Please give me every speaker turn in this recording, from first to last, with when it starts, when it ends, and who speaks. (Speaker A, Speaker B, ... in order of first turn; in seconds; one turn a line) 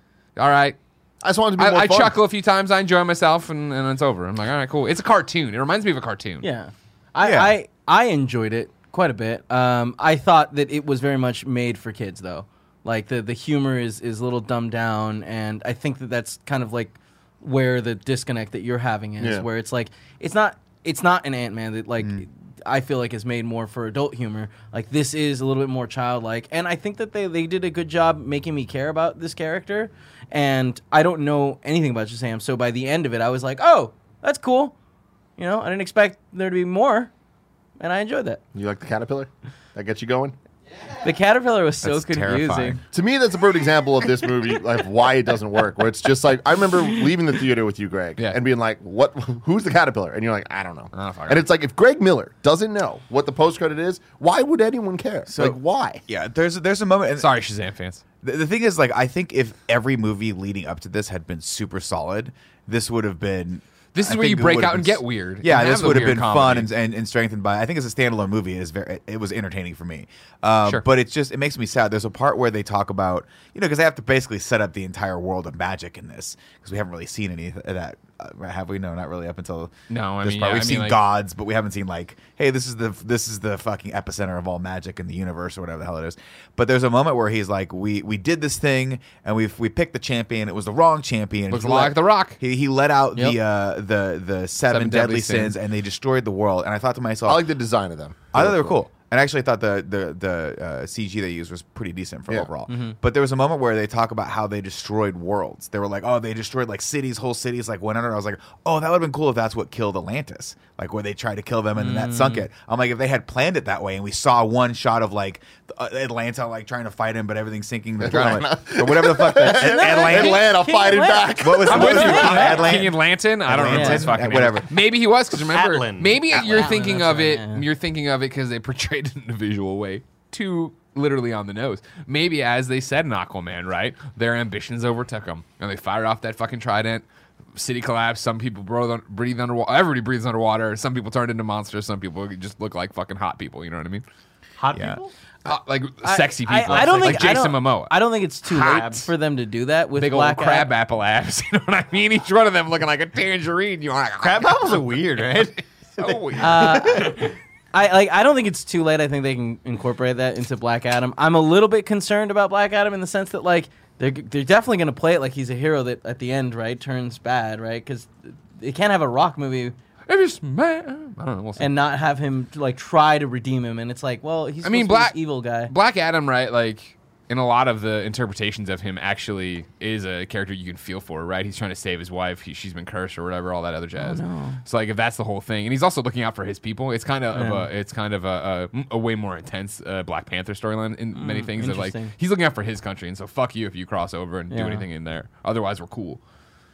Speaker A: 0.4-0.8
Speaker B: 1.2-2.1
Speaker A: 1.6-6.5
Speaker C: 6.4-34.7
Speaker D: 7.2-7.5
Speaker B: 19.2-19.5
Speaker C: 35.4-37.1
Speaker C: 37.8-38.4
Speaker B: 38.5-40.4
Speaker C: 41.0-42.8
Speaker D: 41.8-42.8
Speaker B: 42.9-56.0
Speaker A: 50.9-51.5
Speaker D: 55.3-57.3
Speaker A: 57.2-58.0
Speaker D: 58.2-97.4
Speaker A: 63.9-66.7
Speaker A: 79.9-81.0
Speaker A: 91.5-92.4
Speaker A: 94.7-95.5
Speaker B: 97.3-98.8
Speaker D: 98.3-120.4
Speaker C: 102.7-103.0
Speaker C: 111.8-112.5
Speaker B: 118.0-122.4
Speaker A: 118.2-118.4
Speaker C: 119.5-122.7
Speaker A: 120.2-120.5
Speaker D: 121.4-124.7
Speaker A: 121.7-137.0
Speaker C: 123.7-124.1
Speaker E: 125.4-126.2
Speaker C: 126.4-127.6
Speaker A: 137.6-144.0
Speaker E: 144.6-145.1
Speaker D: 144.7-145.0
Speaker A: 145.5-149.0
Speaker C: 146.0-150.7
Speaker E: 146.7-147.4
Speaker E: 148.6-149.1
Speaker A: 150.0-155.0
Speaker E: 154.2-157.3
Speaker A: 156.1-156.6
Speaker C: 156.4-169.8
Speaker A: 170.1-171.7
Speaker C: 171.6-175.7
Speaker A: 174.6-196.2
Speaker C: 184.0-184.6
Speaker C: 187.3-187.7
Speaker C: 191.1-192.1
Speaker C: 194.5-194.8